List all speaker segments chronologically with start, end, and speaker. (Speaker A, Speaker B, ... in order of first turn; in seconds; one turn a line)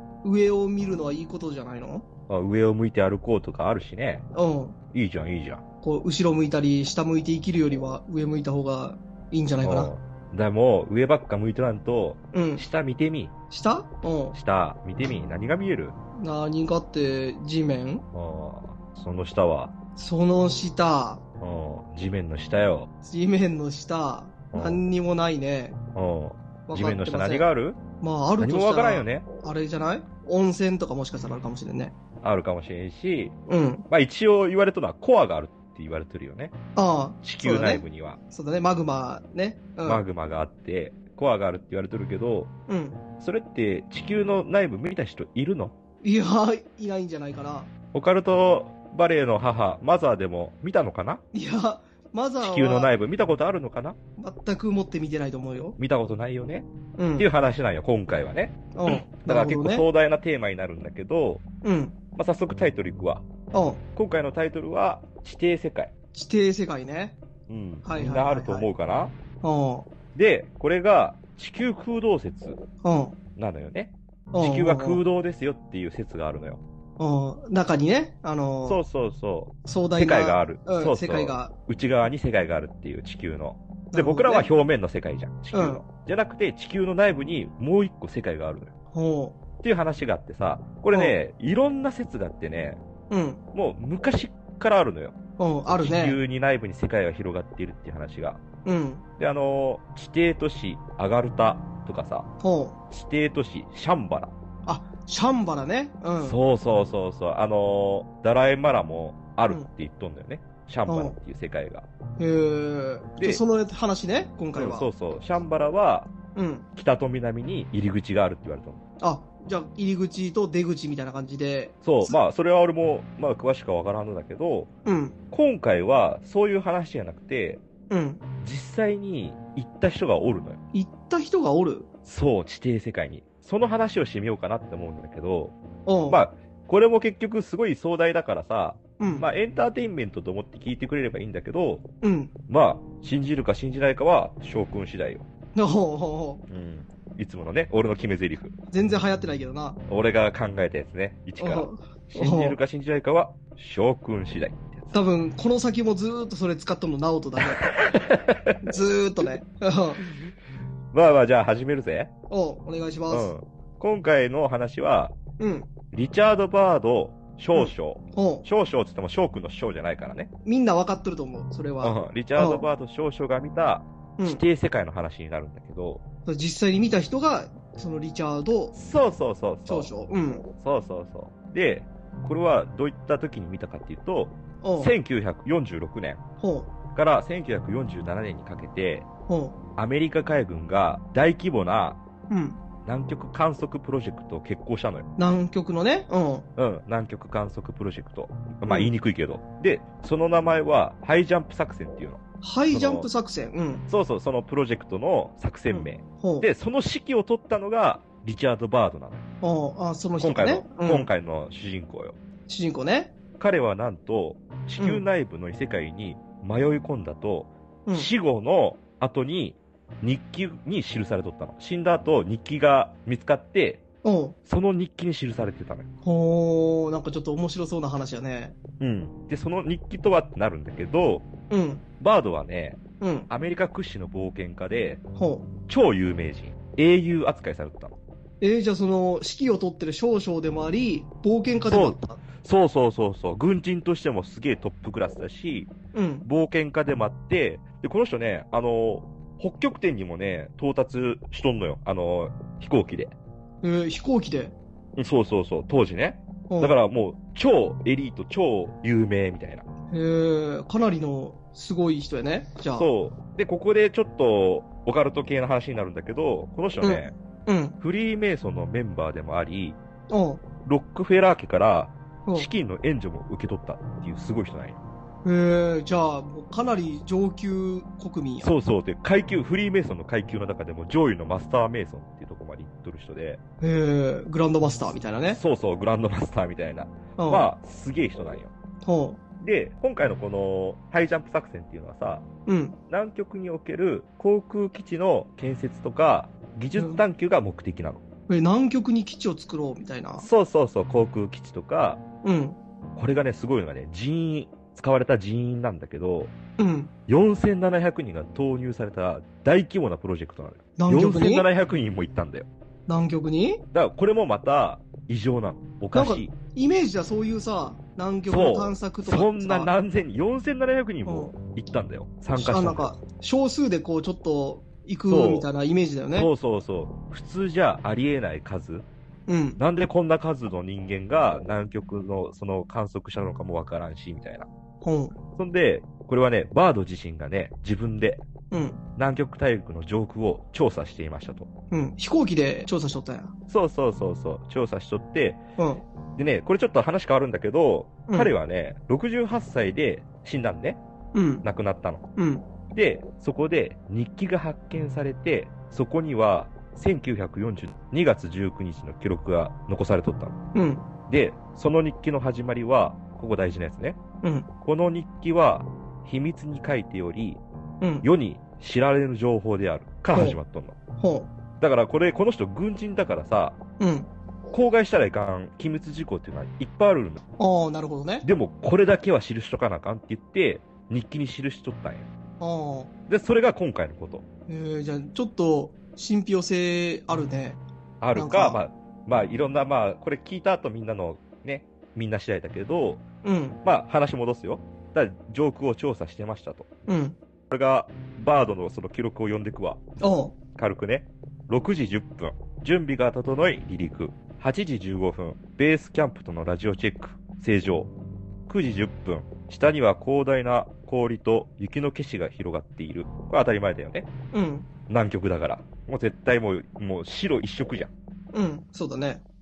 Speaker A: 0.2-2.0
Speaker B: 2.3-4.2
Speaker A: 4.3-4.8
Speaker B: 4.9-5.6
Speaker A: 5.8-9.9
Speaker B: 9.6-13.3
Speaker A: 12.3-12.7
Speaker A: 13.5-14.4
Speaker B: 14.3-15.9
Speaker A: 16.2-18.0
Speaker B: 18.1-19.7
Speaker A: 19.9-21.2
Speaker B: 21.4-22.9
Speaker A: 23.0-25.8
Speaker B: 24.5-24.8
Speaker B: 25.9-27.8
Speaker A: 26.7-27.4
Speaker A: 28.0-31.9
Speaker B: 28.4-29.2
Speaker B: 32.2-33.4
Speaker A: 33.5-33.9
Speaker B: 33.9-36.5
Speaker A: 36.8-40.0
Speaker B: 37.2-38.2
Speaker B: 39.8-42.5
Speaker A: 42.7-43.0
Speaker B: 43.2-45.7
Speaker A: 46.0-47.7
Speaker B: 47.9-51.2
Speaker A: 51.3-52.9
Speaker B: 52.4-54.0
Speaker A: 54.2-55.8
Speaker B: 55.8-61.4
Speaker A: 57.0-57.3
Speaker A: 58.7-59.9
Speaker A: 61.6-62.0
Speaker B: 62.1-63.2
Speaker A: 63.5-63.8
Speaker B: 64.0-65.9
Speaker A: 66.1-67.2
Speaker B: 67.5-69.1
Speaker A: 67.8-68.7
Speaker A: 69.4-69.9
Speaker B: 70.1-72.6
Speaker A: 72.8-73.2
Speaker B: 73.3-76.6
Speaker A: 74.3-75.0
Speaker A: 77.0-78.8
Speaker B: 78.6-88.7
Speaker A: 79.6-81.5
Speaker A: 83.9-84.5
Speaker A: 85.5-85.8
Speaker A: 88.9-89.4
Speaker B: 89.6-92.8
Speaker A: 93.1-93.4
Speaker B: 93.5-95.1
Speaker A: 95.4-96.2
Speaker B: 95.7-98.4
Speaker A: 98.6-99.0
Speaker B: 99.2-102.3
Speaker A: 102.4-102.8
Speaker B: 102.9-104.3
Speaker A: 104.6-106.4
Speaker B: 106.2-111.8
Speaker A: 110.9-111.2
Speaker A: 112.2-114.9
Speaker B: 114.5-116.1
Speaker A: 116.3-116.7
Speaker B: 116.8-118.8
Speaker A: 119.0-122.2
Speaker B: 121.8-124.7
Speaker A: 124.8-125.2
Speaker B: 125.3-127.6
Speaker A: 127.9-128.2
Speaker B: 128.4-130.6
Speaker A: 130.7-131.9
Speaker B: 132.1-135.6
Speaker A: 135.8-136.2
Speaker B: 136.1-141.8
Speaker A: 139.0-139.2
Speaker A: 142.0-142.3
Speaker B: 142.5-145.2
Speaker A: 145.5-146.4
Speaker B: 146.5-148.6
Speaker A: 148.7-149.8
Speaker B: 149.9-154.9
Speaker A: 151.4-152.6
Speaker A: 154.9-157.8
Speaker B: 157.6-158.6
Speaker A: 158.6-160.0
Speaker B: 160.9-162.1
Speaker A: 162.3-163.3
Speaker B: 163.1-165.1
Speaker A: 165.4-165.7
Speaker B: 165.9-170.3
Speaker A: 167.5-168.5
Speaker A: 170.4-172.7
Speaker B: 171.8-176.0
Speaker A: 174.2-174.4
Speaker A: 176.2-178.7
Speaker B: 178.7-179.9
Speaker A: 179.6-180.4
Speaker B: 180.6-186.2
Speaker A: 184.6-184.9
Speaker A: 186.4-186.7
Speaker B: 186.9-189.1
Speaker A: 189.3-189.6
Speaker B: 189.8-192.0
Speaker A: 192.3-192.6
Speaker B: 192.8-195.1
Speaker A: 195.2-196.5
Speaker B: 196.6-202.2
Speaker A: 198.7-198.9
Speaker A: 202.4-203.8
Speaker B: 202.7-203.1
Speaker B: 203.9-209.2
Speaker A: 205.7-206.5
Speaker A: 209.4-211.1
Speaker B: 210.2-212.2
Speaker A: 212.5-213.1
Speaker B: 213.4-223.8
Speaker A: 214.8-215.0
Speaker A: 217.8-218.1
Speaker A: 224.0-224.3
Speaker B: 224.5-225.9
Speaker A: 226.0-228.6
Speaker B: 228.8-231.3
Speaker A: 231.5-231.8
Speaker B: 232.0-235.0
Speaker A: 233.0-233.3
Speaker A: 235.1-235.5
Speaker B: 235.7-237.9
Speaker A: 238.4-242.2
Speaker B: 241.6-245.7
Speaker A: 245.9-246.3
Speaker B: 246.2-253.1
Speaker A: 253.6-254.6
Speaker B: 254.9-259.6
Speaker A: 256.5-256.8
Speaker A: 259.9-262.9
Speaker B: 262.7-267.1
Speaker A: 266.8-267.8
Speaker B: 267.8-269.8
Speaker A: 270.1-270.4
Speaker B: 270.6-274.8
Speaker A: 275.2-278.5
Speaker B: 278.4-283.4
Speaker A: 283.6-285.4
Speaker B: 285.2-288.5
Speaker A: 287.2-287.5
Speaker A: 288.8-289.2
Speaker B: 289.4-292.2
Speaker A: 292.4-292.8
Speaker B: 292.9-298.0
Speaker A: 296.7-297.0
Speaker A: 298.3-300.3
Speaker B: 300.2-302.0
Speaker A: 302.2-302.6
Speaker B: 302.9-306.3
Speaker A: 306.6-306.9
Speaker B: 307.1-312.5
Speaker A: 310.8-311.5
Speaker A: 312.9-313.6
Speaker B: 313.7-316.3
Speaker A: 315.9-319.7
Speaker B: 318.3-322.9
Speaker A: 321.1-321.3
Speaker A: 322.3-326.3
Speaker B: 325.1-325.5
Speaker B: 326.1-328.9
Speaker A: 329.3-329.6
Speaker B: 329.6-334.5
Speaker A: 334.8-335.1
Speaker B: 335.4-338.2
Speaker A: 338.5-338.8
Speaker B: 338.9-341.5
Speaker A: 341.7-343.3
Speaker B: 343.5-345.4
Speaker A: 345.6-345.8
Speaker B: 346.2-350.8
Speaker A: 348.1-348.3
Speaker A: 351.1-351.4
Speaker B: 351.4-352.0
Speaker A: 352.1-352.5
Speaker B: 352.7-360.3
Speaker A: 360.5-360.9
Speaker B: 361.1-364.0
Speaker A: 364.2-364.5
Speaker B: 364.6-367.4
Speaker A: 367.8-368.1
Speaker B: 368.0-370.8
Speaker A: 370.1-370.4
Speaker A: 371.0-371.3
Speaker B: 371.6-373.6
Speaker A: 373.8-374.1
Speaker B: 374.5-377.2
Speaker A: 377.4-378.3
Speaker B: 378.2-382.1
Speaker A: 382.4-382.9
Speaker B: 383.1-384.2
Speaker A: 384.5-387.6
Speaker B: 388.0-393.0
Speaker A: 388.1-388.6
Speaker A: 393.2-393.6
Speaker B: 393.6-396.7
Speaker A: 396.9-397.2
Speaker B: 397.5-399.8
Speaker A: 400.0-400.3
Speaker B: 400.6-407.9
Speaker B: 408.5-414.1
Speaker A: 414.3-414.7
Speaker B: 414.9-417.9
Speaker A: 418.3-419.2